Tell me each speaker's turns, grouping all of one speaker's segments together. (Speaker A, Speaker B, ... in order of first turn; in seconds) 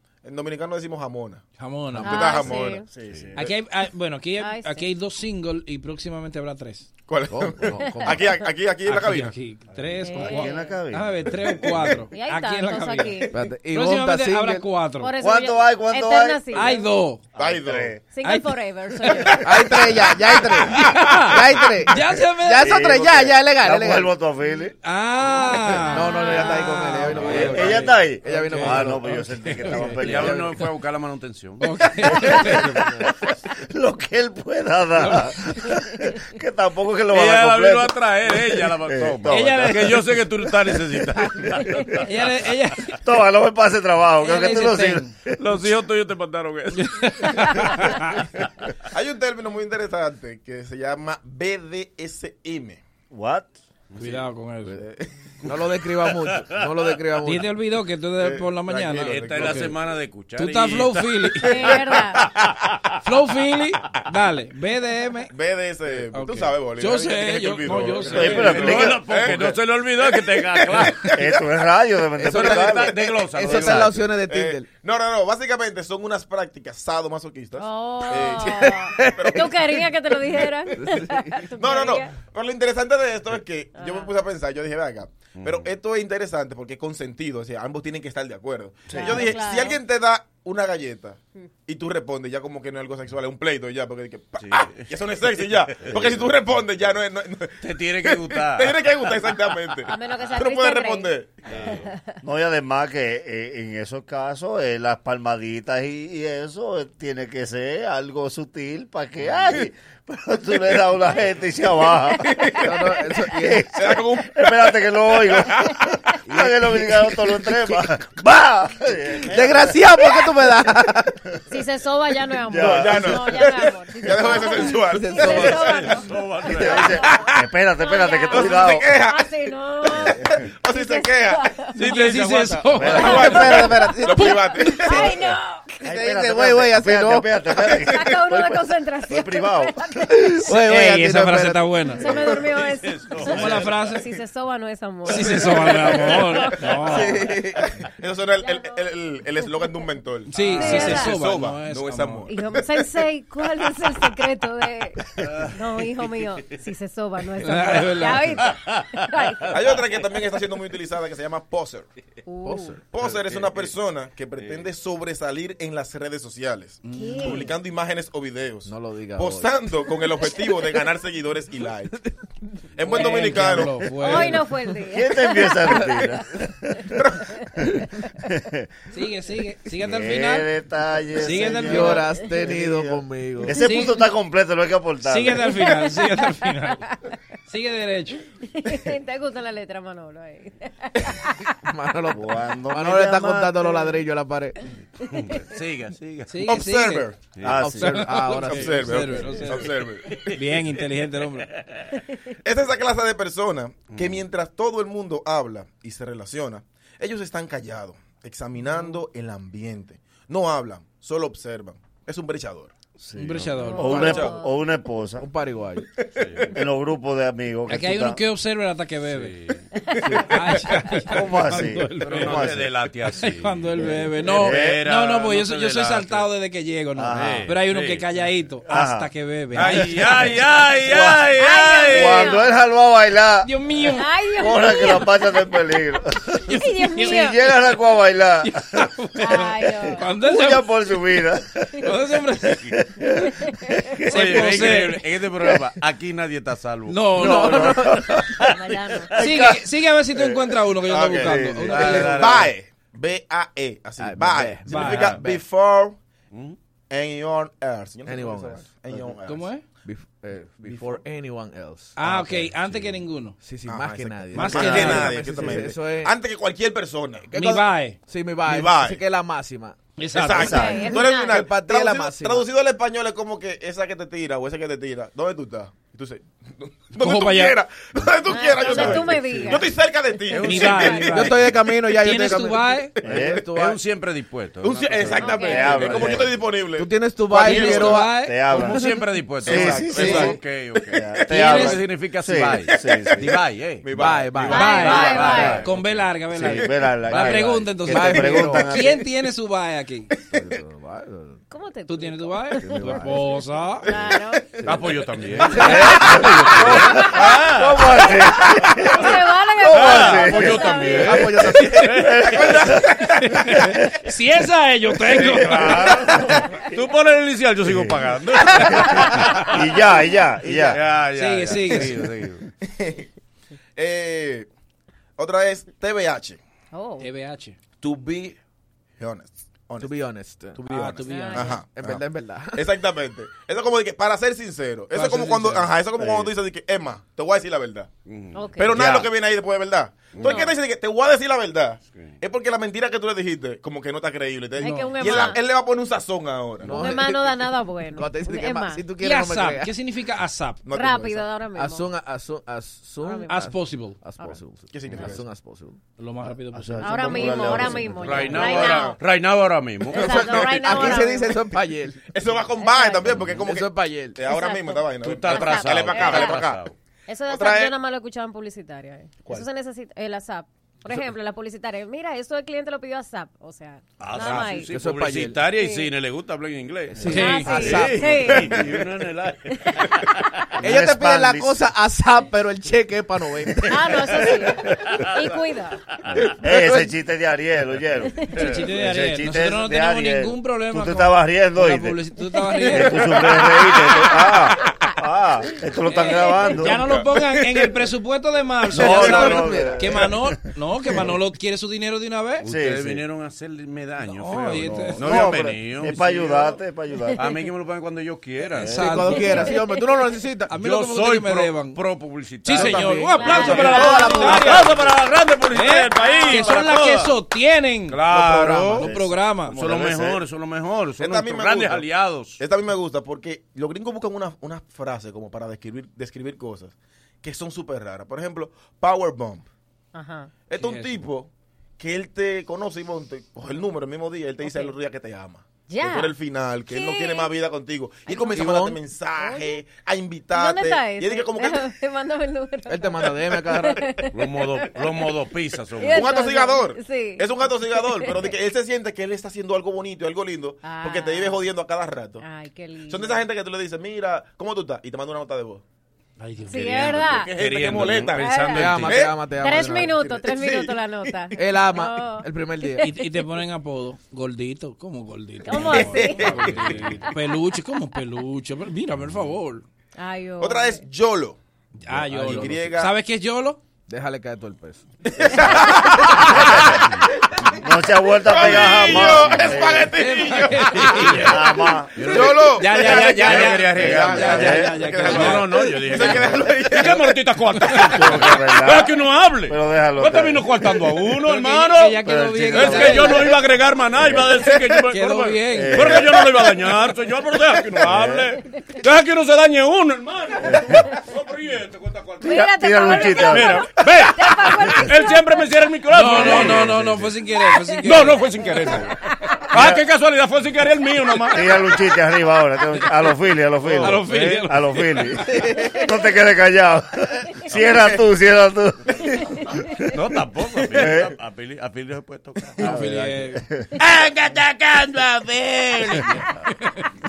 Speaker A: 0.2-2.9, 7.0-9.3, 17.4-17.9, 48.9-52.8, 54.7-55.1, 58.2-59.7, 65.3-69.6, 73.5-79.5, 81.6-101.7, 112.2-112.7, 113.7-115.8, 122.5-126.0, 127.0-127.4, 128.3-129.3, 129.8-131.5, 133.0-135.2, 140.7-141.7, 145.7-152.8, 159.5-161.9, 162.9-172.0, 172.8-173.9, 196.4-197.2, 198.2-200.4, 202.4-212.8, 213.8-214.3, 250.2-256.0, 256.9-259.5, 260.6-261.0, 263.6-267.6, 268.4-269.0, 270.1-281.3, 284.6-286.9, 289.4-290.4, 293.8-294.6, 312.3-313.4, 315.3-315.7, 322.6-323.1, 323.8-324.5, 325.2-326.4, 327.8-328.4, 329.0-330.0, 330.7-332.0, 332.5-337.9, 338.6-347.2, 350.6-351.3, 354.7-355.2, 358.3-359.0, 359.9-361.1, 362.1-366.6, 367.3-367.8, 421.0-421.8, 422.4-429.5, 430.5-441.7, 445.8-452.2, 452.9-455.6, 457.3-461.3, 465.6-466.9, 470.4-472.9, 475.1-476.7, 478.2-481.3, 482.0-487.1
Speaker B: 1.6-2.4, 3.4-6.9, 8.8-15.1, 16.5-17.2, 18.2-18.5, 19.1-22.7, 24.8-30.1, 31.6-32.7, 35.0-35.3, 39.3-40.0, 41.9-42.9, 44.2-45.1, 46.7-48.2, 54.0-54.8, 57.2-59.7, 60.4-61.8, 63.0-65.3, 66.1-68.8, 131.7-133.6, 140.5-142.2, 143.3-144.1, 145.1-147.2, 150.3-152.3, 157.4-158.4, 166.8-167.2, 172.9-174.5, 178.9-180.5, 181.1-182.1, 183.6-184.0, 185.0-186.8, 187.5-188.2, 196.3-197.1, 197.7-199.7, 200.3-201.5, 213.1-214.3, 217.7-219.3, 220.2-222.5, 223.1-230.3, 233.4-234.1, 236.5-237.2, 238.4-240.7, 241.8-242.7, 244.1-245.0, 246.9-247.8, 249.1-252.3, 254.7-255.1, 259.2-259.6, 261.9-263.4, 264.3-265.2, 267.3-268.0, 270.0-270.8, 276.9-277.6, 280.4-282.9, 287.4-288.4, 291.3-291.8, 294.5-300.1, 301.9-303.9, 313.2-315.9, 321.1-321.9, 327.0-327.6, 330.7-331.6, 344.6-345.3, 349.0-350.6, 353.3-354.0, 356.0-357.6, 377.1-377.8, 388.4-393.1, 395.9-402.5, 404.1-405.3, 408.8-409.4, 410.5-411.8, 412.4-414.8, 415.5-418.1, 418.7-419.6, 430.5-431.0, 456.2-456.6, 462.8-469.6, 471.8-473.6, 480.0-481.3, 482.1-486.2, 491.2-493.4, 494.8-496.0, 505.9-508.2, 513.8-514.7, 522.6-523.4
Speaker C: 2.0-2.9, 4.4-4.9, 7.8-8.1, 10.0-10.7, 12.1-13.3, 15.0-16.8, 18.1-19.4, 26.0-27.2, 61.4-62.3, 77.6-82.1, 83.7-84.1, 88.9-89.8, 99.8-101.1, 121.5-127.3, 127.8-132.0, 133.0-135.8, 137.6-140.2, 141.9-146.6, 148.4-148.9, 150.4-151.2, 152.3-159.6, 162.3-162.8, 166.9-167.5, 174.0-175.9, 185.6-185.9, 188.5-191.3, 208.6-208.9, 213.6-214.5, 231.4-232.5, 233.9-235.1, 236.5-237.4, 239.2-240.1, 243.2-243.7, 248.4-249.1, 270.4-271.4, 278.3-279.7, 285.2-285.8, 294.5-295.6, 301.5-304.5, 306.9-307.2, 308.3-311.3, 326.7-327.1, 331.1-331.6, 338.3-338.8, 340.2-340.5, 344.6-345.4, 346.7-348.8, 350.7-351.9, 353.0-353.5, 356.8-359.0, 359.9-361.4, 362.6-363.2, 364.3-366.4, 367.1-374.7, 375.6-375.9, 377.1-378.5, 383.7-385.8, 392.3-392.9, 409.3-409.8, 413.1-414.5, 416.0-416.5, 429.9-430.3, 434.4-434.7, 435.7-436.1, 436.7-437.3, 438.1-438.4, 439.2-439.6, 440.3-444.7, 445.8-448.2, 450.6-451.4, 452.2-453.2, 456.4-457.3, 458.1-458.7, 459.4-463.1, 465.4-467.1, 470.0-470.8, 502.2-505.3
Speaker D: 2.7-3.4, 10.2-11.4, 15.2-16.6, 17.6-18.0, 22.6-24.7, 27.2-30.4, 33.7-39.7, 43.0-45.0, 53.1-53.5, 68.1-69.0, 71.0-73.1, 102.2-112.7, 113.4-113.7, 114.3-120.1, 122.5-123.3, 126.4-128.9, 132.7-133.3, 135.8-139.8, 174.8-177.0, 177.6-178.7, 179.8-185.6, 192.1-193.7, 197.4-198.1, 213.0-215.3, 216.5-218.2, 221.1-222.7, 224.2-224.8, 226.9-227.5, 228.7-229.1, 230.8-233.5, 234.4-238.9, 240.2-241.8, 242.7-244.7, 247.2-248.1, 249.1-249.7, 251.2-251.9, 283.0-283.4, 285.4-286.3, 287.4-288.8, 289.4-293.4, 295.3-295.7, 296.3-299.0, 305.5-310.9, 311.9-312.9, 315.5-316.3, 317.6-320.8, 336.0-336.3, 338.8-339.1, 356.5-358.6, 380.6-381.6, 386.4-392.0, 392.6-397.1, 398.7-400.3, 402.4-403.0, 404.4-407.3, 408.5-409.1, 418.8-420.2, 477.5-479.9, 481.2-481.9, 484.2-484.7, 487.8-488.9, 489.4-490.5, 492.0-493.4, 493.9-494.4, 495.5-496.3, 497.8-498.3, 500.4-500.8, 502.2-503.6, 506.3-507.0, 509.5-509.8, 511.3-519.1, 520.7-521.1, 522.6-523.7
Speaker E: 3.1-3.4, 30.0-32.6, 37.1-42.0, 45.4-47.0, 53.9-54.2, 56.3-56.6, 59.0-62.4, 68.1-71.2, 72.2-74.0, 85.4-85.7, 94.4-96.3, 97.6-99.3, 101.5-101.9, 125.8-126.8, 131.8-133.2, 142.6-143.7, 158.4-159.0, 163.0-163.7, 164.3-164.7, 195.1-196.5, 197.3-197.7, 200.1-200.6, 203.9-204.2, 216.2-216.6, 219.1-219.7, 222.0-226.3, 227.1-228.1, 229.5-232.3, 244.1-248.2, 254.9-255.2, 256.3-256.6, 280.3-281.1, 283.5-286.3, 288.5-296.1, 297.1-297.6, 304.6-308.1, 309.6-312.7, 315.1-319.6, 320.4-322.4, 338.1-338.4, 340.1-340.5, 358.0-360.6, 365.0-366.7, 374.0-380.1, 388.3-388.6, 402.4-406.6, 407.2-409.0, 410.5-417.1, 417.9-418.9, 419.5-422.4, 444.1-446.2, 456.5-459.1, 480.8-481.4, 481.9-507.1, 507.8-508.9, 509.5-511.6, 513.6-514.4, 517.5-517.8, 519.8-522.8, 523.8-526.2
Speaker F: 7.3-8.3, 13.3-14.7, 19.4-24.1, 25.9-29.1, 55.5-57.5, 72.2-74.7, 78.2-81.5, 112.6-113.7, 116.3-117.0, 119.2-121.1, 124.5-126.0, 132.9-135.3, 135.8-137.3, 140.2-141.4, 146.9-147.6, 162.4-162.8, 168.7-169.5, 181.5-183.5, 191.6-194.6, 197.5-199.4, 215.2-215.9, 220.1-220.3, 247.2-248.1, 251.7-252.4, 254.0-255.4, 258.0-259.1, 259.8-262.6, 263.4-266.1, 267.3-269.8, 270.9-272.5, 281.0-283.8, 286.8-288.1, 293.9-295.2, 297.2-298.8, 300.3-301.4, 302.6-303.4, 304.6-306.5, 311.1-311.6, 329.8-332.6, 334.9-335.7, 346.6-349.7, 351.5-355.8, 360.4-362.0, 363.3-364.2, 374.5-375.4, 376.9-378.5, 380.6-383.9, 386.5-386.8, 398.7-400.0, 408.7-410.5, 412.5-414.8, 418.2-418.8, 438.3-438.8, 442.7-443.9, 458.5-460.0, 461.4-462.9, 473.9-476.1